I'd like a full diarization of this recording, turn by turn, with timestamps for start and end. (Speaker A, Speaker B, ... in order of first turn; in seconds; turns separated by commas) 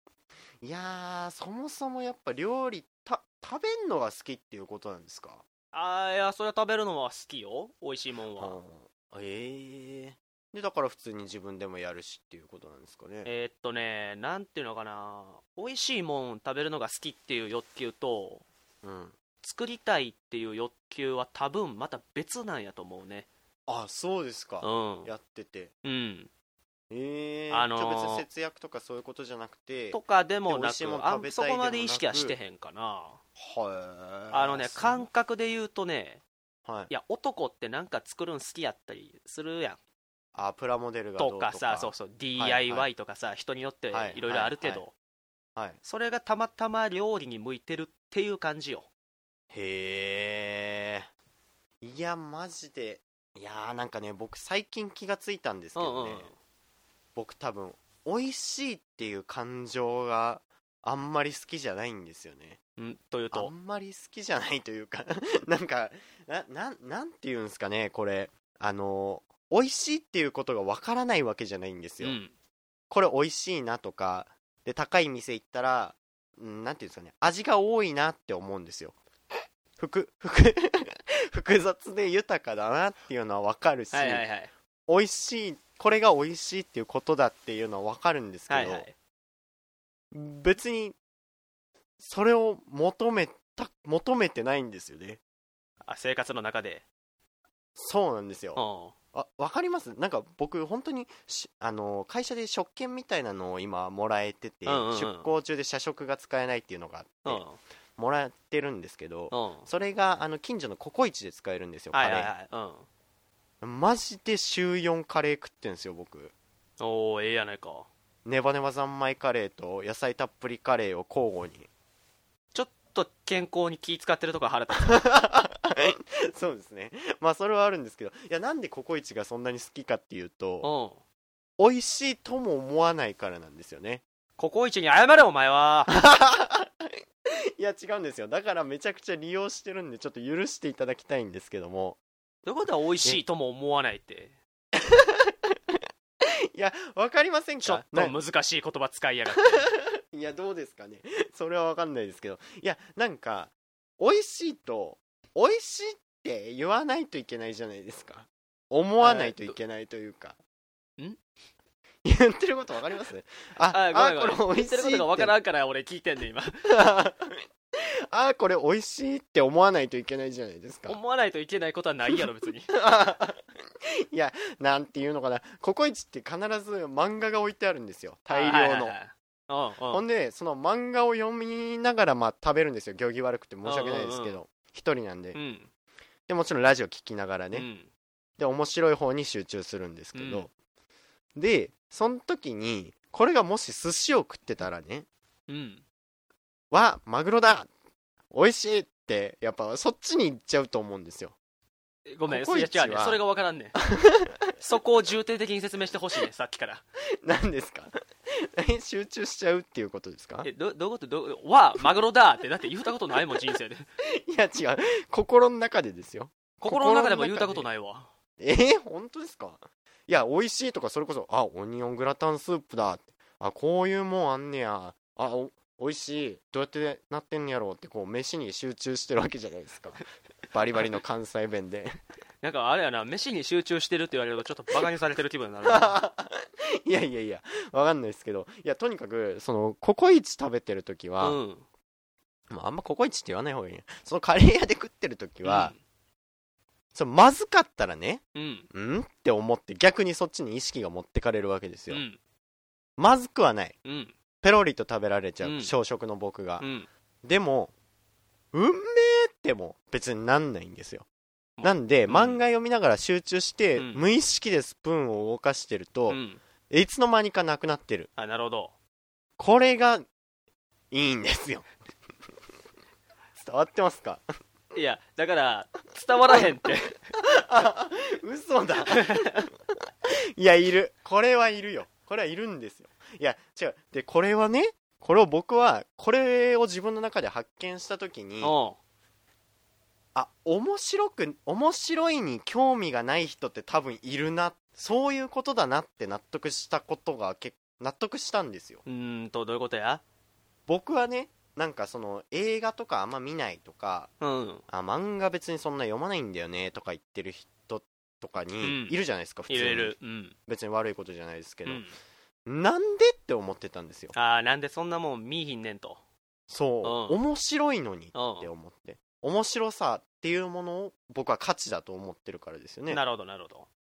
Speaker A: 0.6-5.4, Speaker B: 5.7-8.6, Speaker A: 8.4-13.3, Speaker B: 13.2-18.4, Speaker A: 18.8-19.1, Speaker B: 19.4-23.3, Speaker A: 23.7-25.7, Speaker B: 24.6-25.1, Speaker B: 25.8-26.3, Speaker A: 26.9-32.4, Speaker B: 27.5-28.2, Speaker B: 29.9-33.2, Speaker A: 33.4-35.0, Speaker B: 34.3-36.2, Speaker A: 36.6-36.9, Speaker B: 36.9-39.8, Speaker A: 40.3-42.9, Speaker B: 41.2-44.9, Speaker A: 43.9-44.8, Speaker B: 45.8-48.9, Speaker A: 49.5-51.1, Speaker A: 51.8-56.3, Speaker B: 55.7-56.3, Speaker A: 57.1-62.6, Speaker B: 62.8-63.5, Speaker A: 63.3-72.2, Speaker B: 72.0-72.3, Speaker A: 72.9-79.0, Speaker A: 79.8-84.2, Speaker B: 83.9-84.5, Speaker A: 84.9-88.8, Speaker B: 88.5-88.9, Speaker A: 90.1-91.0, Speaker A: 92.0-95.2, Speaker B: 95.8-96.8, Speaker A: 97.8-98.6, Speaker B: 98.5-98.9, Speaker A: 99.1-107.4, Speaker B: 104.6-105.3, Speaker B: 107.2-107.6, Speaker A: 108.0-112.3, Speaker B: 109.3-109.7, Speaker B: 111.9-112.8, Speaker A: 113.6-116.3, Speaker B: 116.8-117.9, Speaker A: 118.2-121.7, Speaker B: 122.5-125.0, Speaker A: 124.8-130.7, Speaker B: 130.6-131.0, Speaker A: 131.6-134.0, Speaker B: 134.4-135.9, Speaker A: 135.9-136.9, Speaker A: 137.6-142.0, Speaker B: 142.4-144.3, Speaker A: 144.7-145.8, Speaker A: 146.5-148.1, Speaker B: 147.6-149.7, Speaker A: 150.1-160.4, Speaker B: 159.0-159.6, Speaker A: 162.0-165.3, Speaker B: 163.7-166.6, Speaker A: 166.6-167.4, Speaker A: 168.1-171.0, Speaker B: 170.9-172.7, Speaker A: 172.7-173.4, Speaker A: 174.1-178.9, Speaker B: 178.3-180.0, Speaker A: 179.9-185.4, Speaker B: 183.6-184.4, Speaker B: 185.3-185.7, Speaker A: 186.3-187.7, Speaker B: 187.5-187.9, Speaker A: 188.4-190.5, Speaker B: 190.1-190.5, Speaker A: 191.3-195.1, Speaker B: 195.5-195.8, Speaker A: 196.7-197.7, Speaker A: 198.3-201.3, Speaker B: 202.1-203.8, Speaker A: 202.2-203.2, Speaker A: 203.8-204.5, Speaker B: 204.6-206.8, Speaker A: 207.2-210.5, Speaker B: 210.4-213.8, Speaker A: 214.1-217.7, Speaker B: 216.6-218.1, Speaker A: 218.4-232.0, Speaker B: 232.4-236.0, Speaker A: 235.6-241.4, Speaker B: 241.2-241.6, Speaker A: 242.5-245.7, Speaker B: 245.4-245.8, Speaker A: 246.9-252.0, Speaker B: 248.3-248.7, Speaker B: 251.9-252.2, Speaker A: 253.0-253.8, Speaker B: 253.8-254.1, Speaker A: 254.4-256.6, Speaker B: 255.4-255.7, Speaker B: 256.6-256.9, Speaker A: 257.2-257.7, Speaker A: 258.5-261.0, Speaker B: 261.6-262.4, Speaker A: 261.6-268.1, Speaker B: 263.8-264.0, Speaker B: 266.1-266.4, Speaker B: 268.2-268.7, Speaker A: 269.4-270.0, Speaker A: 270.9-271.7, Speaker A: 273.4-274.2, Speaker B: 274.7-276.9, Speaker A: 277.2-279.4, Speaker B: 278.9-279.4, Speaker A: 280.4-288.5, Speaker B: 288.4-288.8, Speaker A: 290.1-298.8, Speaker B: 298.9-300.0, Speaker A: 300.7-304.1, Speaker B: 304.2-304.6, Speaker A: 304.7-309.9, Speaker B: 308.6-308.9, Speaker B: 309.5-310.3, Speaker A: 310.5-311.9, Speaker B: 311.6-311.9, Speaker A: 312.4-314.1, Speaker B: 314.1-316.0, Speaker A: 316.5-323.0, Speaker B: 316.8-317.2, Speaker B: 318.1-318.5, Speaker B: 322.9-323.7